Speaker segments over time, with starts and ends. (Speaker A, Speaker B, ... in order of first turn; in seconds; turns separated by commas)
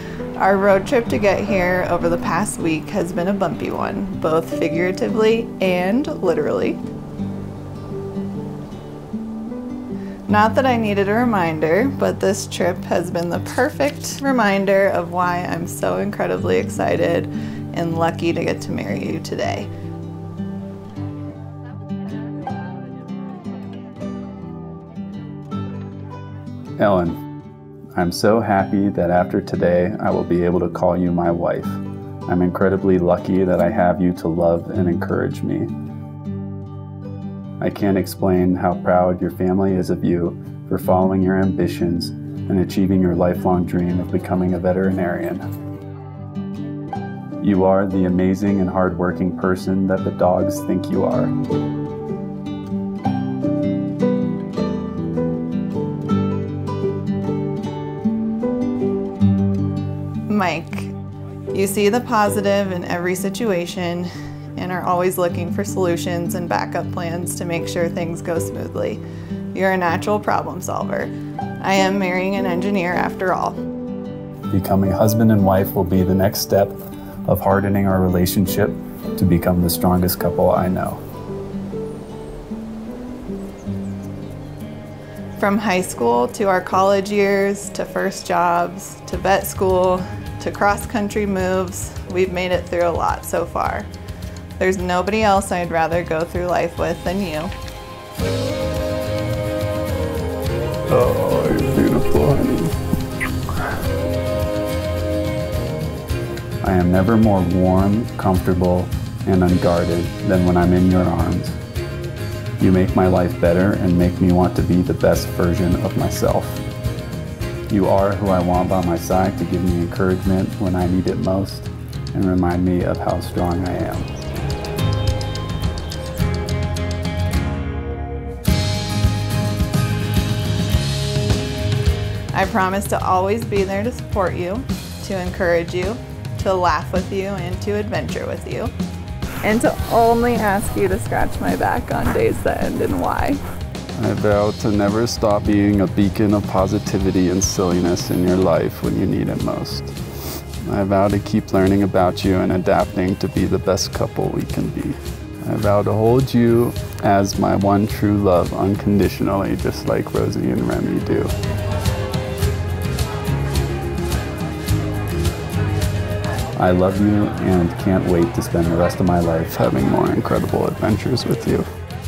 Speaker A: 0.4-6.8, Speaker A: 10.3-19.7, Speaker B: 26.8-27.2, Speaker B: 27.9-35.7, Speaker B: 37.6-45.4, Speaker B: 47.4-51.3, Speaker A: 60.3-61.0, Speaker A: 61.5-69.0, Speaker A: 69.5-73.6, Speaker B: 74.5-81.0, Speaker A: 85.4-93.9, Speaker A: 94.6-97.5, Speaker B: 100.9-102.7, Speaker B: 106.6-111.6, Speaker B: 112.6-116.6, Speaker B: 117.7-124.2, Speaker A: 132.3-138.7, Speaker A: 139.4-143.4, Speaker B: 144.0-161.3, Speaker B: 166.6-171.7